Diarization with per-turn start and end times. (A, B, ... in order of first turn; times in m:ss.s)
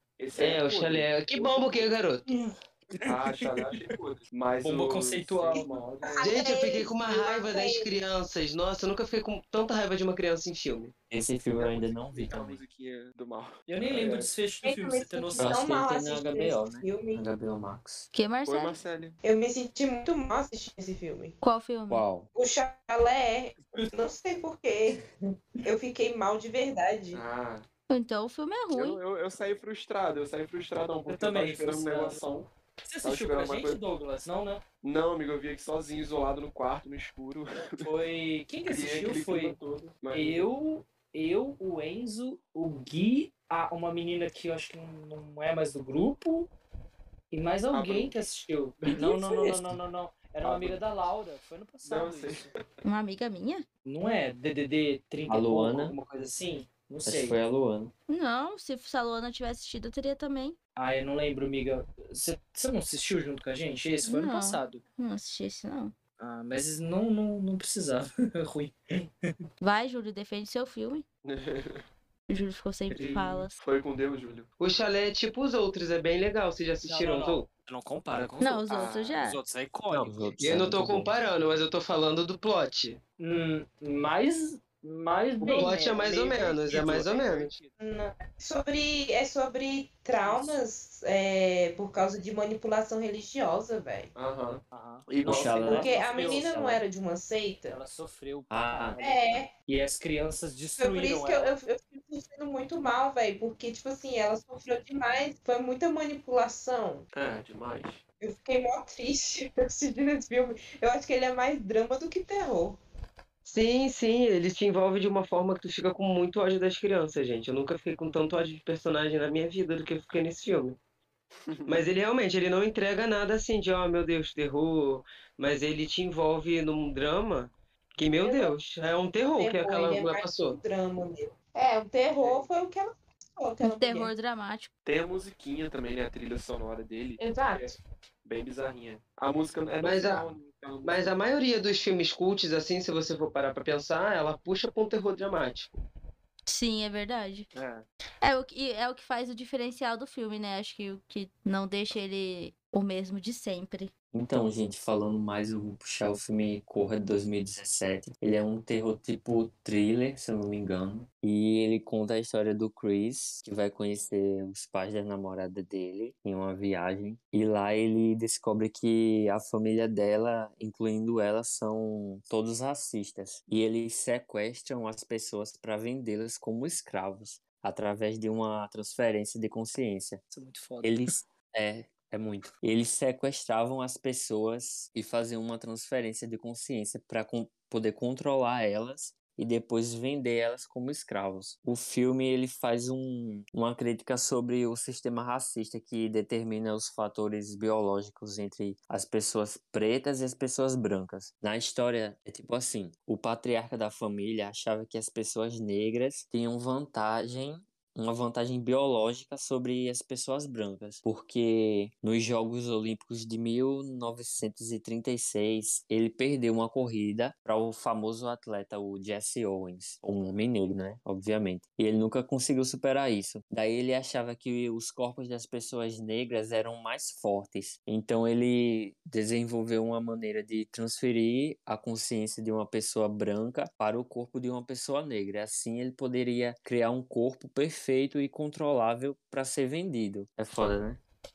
0:00.2-0:02.0 A
0:00.4-0:02.2 B
0:02.3-0:03.8 C
0:03.0-0:06.3 A
0:04.6-0:06.0 C
0:05.5-0:07.9 D
0:06.2-0:10.9 B
0:11.1-0:12.6 E
0:11.6-0:14.3 A
0:13.7-0:15.6 C
0:14.6-0:17.2 D
0:15.4-0:18.1 E
0:18.1-0:18.8 F
0:18.5-0:19.2 A
0:19.2-0:21.4 D
0:21.4-0:22.1 F
0:21.9-0:22.3 E
0:22.3-0:25.1 D
0:25.6-0:27.2 D
0:27.1-0:27.7 A
0:27.9-0:29.0 F
0:28.7-0:32.5 A
0:31.1-0:32.2 C
0:32.8-0:34.6 C
0:33.0-0:33.8 A
0:34.8-0:37.8 A
0:37.8-0:39.6 C
0:38.7-0:40.5 A
0:40.1-0:46.5 C
0:47.3-0:52.5 C
0:47.7-0:48.1 A
0:48.9-0:49.2 A
0:50.4-0:50.8 A
0:51.8-0:52.6 A
0:52.8-0:53.6 F
0:53.8-0:57.4 C
0:55.3-0:56.0 E
0:57.0-0:57.9 E
0:58.1-1:00.6 F
1:00.8-1:04.8 C
1:04.0-1:06.0 F
1:06.2-1:09.3 C
1:09.6-1:11.0 F
1:11.2-1:11.8 A
1:12.3-1:13.6 F
1:12.9-1:14.5 A
1:14.6-1:17.5 B
1:16.8-1:18.6 C
1:18.4-1:19.4 F
1:18.7-1:19.2 A
1:19.2-1:20.4 C
1:20.0-1:21.1 E
1:20.4-1:23.0 B
1:23.2-1:27.7 C
1:25.4-1:27.5 B
1:27.8-1:34.1 D
1:30.2-1:30.6 C
1:34.2-1:35.9 A
1:34.7-1:36.5 C
1:35.2-1:36.8 E
1:35.7-1:37.8 D
1:37.7-1:41.5 C
1:38.5-1:39.0 E
1:39.0-1:39.5 D
1:40.8-1:47.1 D
1:47.1-1:48.0 A
1:48.2-1:52.8 D
1:53.4-2:00.8 B
2:01.5-2:01.9 A
2:01.7-2:10.6 B
2:08.2-2:08.6 D
2:09.4-2:14.1 D
2:12.1-2:12.5 A
2:13.6-2:14.7 F
2:14.8-2:21.2 A
2:17.2-2:17.8 D
2:19.8-2:20.3 B
2:20.8-2:25.8 B
2:26.5-2:27.5 F
2:27.5-2:27.8 A
2:28.2-2:33.9 F
2:34.1-3:00.2 E
3:00.3-3:01.2 C
3:00.8-4:01.0 E